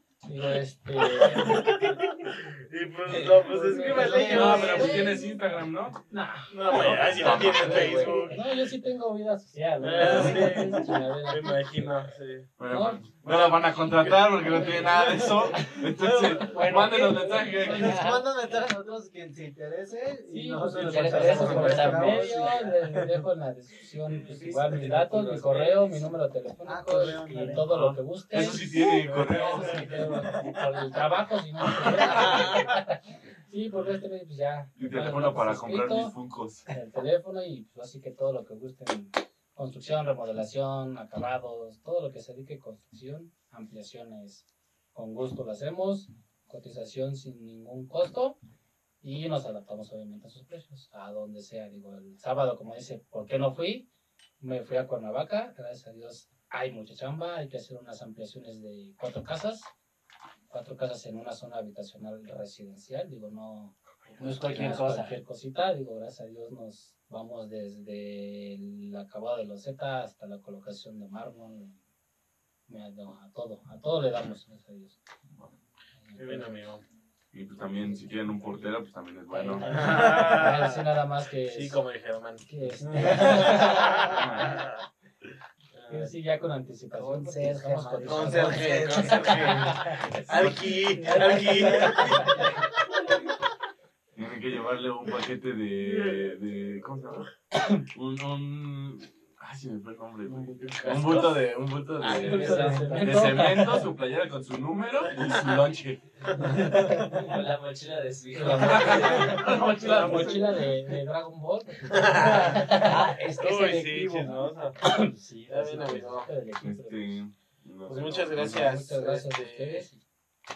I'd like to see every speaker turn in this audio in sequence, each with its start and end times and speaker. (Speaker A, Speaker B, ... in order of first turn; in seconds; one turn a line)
Speaker A: 0.2-1.7
Speaker B: 1.0-5.0
Speaker A: 3.4-5.6
Speaker C: 3.8-4.9
Speaker D: 3.9-4.9
Speaker E: 4.2-6.1
Speaker A: 6.1-12.1
Speaker B: 6.5-8.4
Speaker E: 6.6-8.2
Speaker D: 7.8-8.3
Speaker B: 9.8-12.5
Speaker D: 10.2-10.8
Speaker E: 12.6-18.2
Speaker A: 12.7-14.8
Speaker B: 14.0-16.8
Speaker D: 16.4-18.3
Speaker C: 17.4-22.7
Speaker A: 20.3-36.2
Speaker D: 20.6-22.8
Speaker E: 21.4-21.8
Speaker B: 24.1-26.0
Speaker D: 24.9-25.2
Speaker C: 26.6-27.7
Speaker E: 27.5-30.1
Speaker B: 29.0-29.9
Speaker B: 32.0-32.8
Speaker E: 34.8-36.7
Speaker A: 36.7-48.4
Speaker A: 49.0-53.9
Speaker A: 54.4-59.7
Speaker A: 60.5-71.8
Speaker B: 64.1-64.8
Speaker D: 64.2-65.2
Speaker A: 72.7-75.0
Speaker A: 76.0-76.7
Speaker B: 76.2-76.8
Speaker E: 77.3-79.9
Speaker A: 77.7-78.7
Speaker D: 79.3-80.7
Speaker A: 79.5-81.8
Speaker B: 79.7-80.8
Speaker B: 81.4-84.8
Speaker A: 82.4-84.7
Speaker B: 85.7-86.1
Speaker A: 85.9-90.2
Speaker C: 86.9-89.6
Speaker D: 87.3-90.0
Speaker B: 88.0-92.5
Speaker D: 91.0-92.4
Speaker C: 91.2-92.3
Speaker E: 94.2-97.3
Speaker B: 95.8-97.0
Speaker A: 97.5-97.8
Speaker E: 97.9-106.0
Speaker B: 100.3-101.4
Speaker B: 102.0-103.0
Speaker D: 102.1-103.7
Speaker A: 102.1-103.8
Speaker B: 105.2-105.5
Speaker B: 106.3-107.2
Speaker A: 106.4-107.3
Speaker D: 106.6-110.4
Speaker A: 108.3-113.1
Speaker E: 108.5-109.8
Speaker B: 109.5-110.4
Speaker C: 110.1-110.3
Speaker B: 111.8-112.8
Speaker D: 112.1-114.4
Speaker B: 113.4-115.0
Speaker A: 114.2-117.2
Speaker B: 115.5-116.3
Speaker E: 116.6-118.7
Speaker B: 117.9-119.9
Speaker A: 118.3-120.0